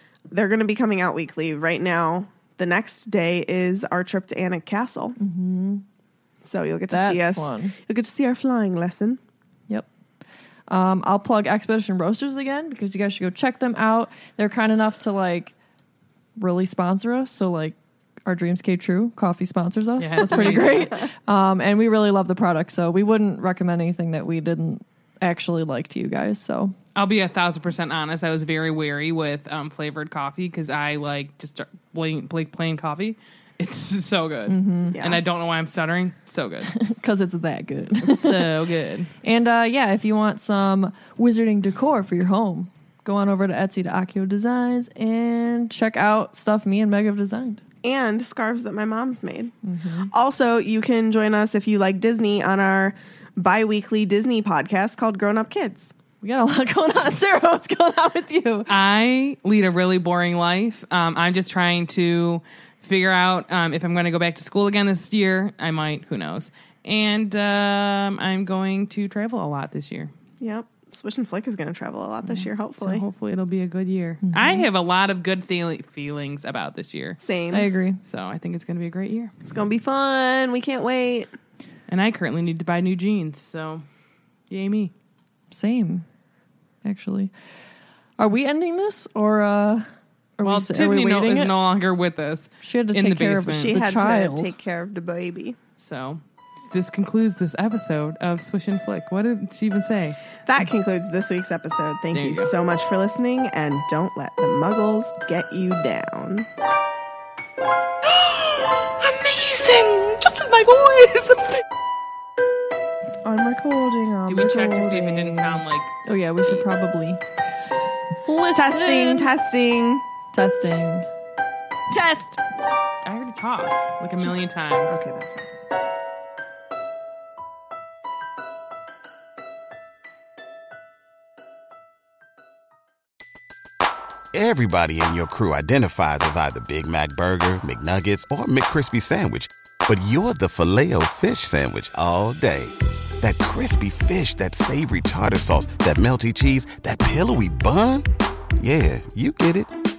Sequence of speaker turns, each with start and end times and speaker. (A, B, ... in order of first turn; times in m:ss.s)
0:00.3-0:05.2 A
0:05.2-0:05.8 B
0:06.4-0:09.2 A
0:06.9-0:07.7 B
0:10.7-0:15.5 B
0:16.4-0:26.7 B
0:20.0-0:21.0 C
0:20.3-0:20.8 A
0:26.9-0:36.7 C
0:34.5-0:35.0 B
0:34.9-0:35.2 A
0:36.7-0:38.6 B
0:38.0-0:39.1 C
0:39.2-0:47.6 B
0:47.8-0:49.5 A
0:49.6-0:50.1 B
0:50.1-0:55.9 A
0:56.2-0:58.7 B
0:58.7-1:10.1 C
1:10.4-1:13.0 A
1:12.8-1:17.2 C
1:14.3-1:14.6 B
1:17.2-1:17.7 A
1:17.5-1:18.0 B
1:18.1-1:19.3 C
1:19.4-1:21.3 A
1:21.9-1:23.8 C
1:24.5-1:24.9 C
1:25.5-1:26.0 B
1:26.8-1:27.3 B
1:28.2-1:31.5 B
1:30.4-1:33.8 C
1:32.6-1:34.5 B
1:33.5-1:35.6 A
1:35.8-1:36.2 C
1:36.7-1:40.2 C
1:40.5-1:46.5 A
1:42.1-1:42.5 C
1:48.3-1:51.6 C
1:53.2-1:55.6 A
1:54.3-1:55.9 C
1:56.1-1:57.2 B
1:58.2-1:59.3 B
1:58.5-2:00.1 A
2:00.3-2:01.1 B
2:03.0-2:05.0 C
2:04.9-2:05.5 A
2:14.3-2:28.1 D
2:28.6-2:29.7 D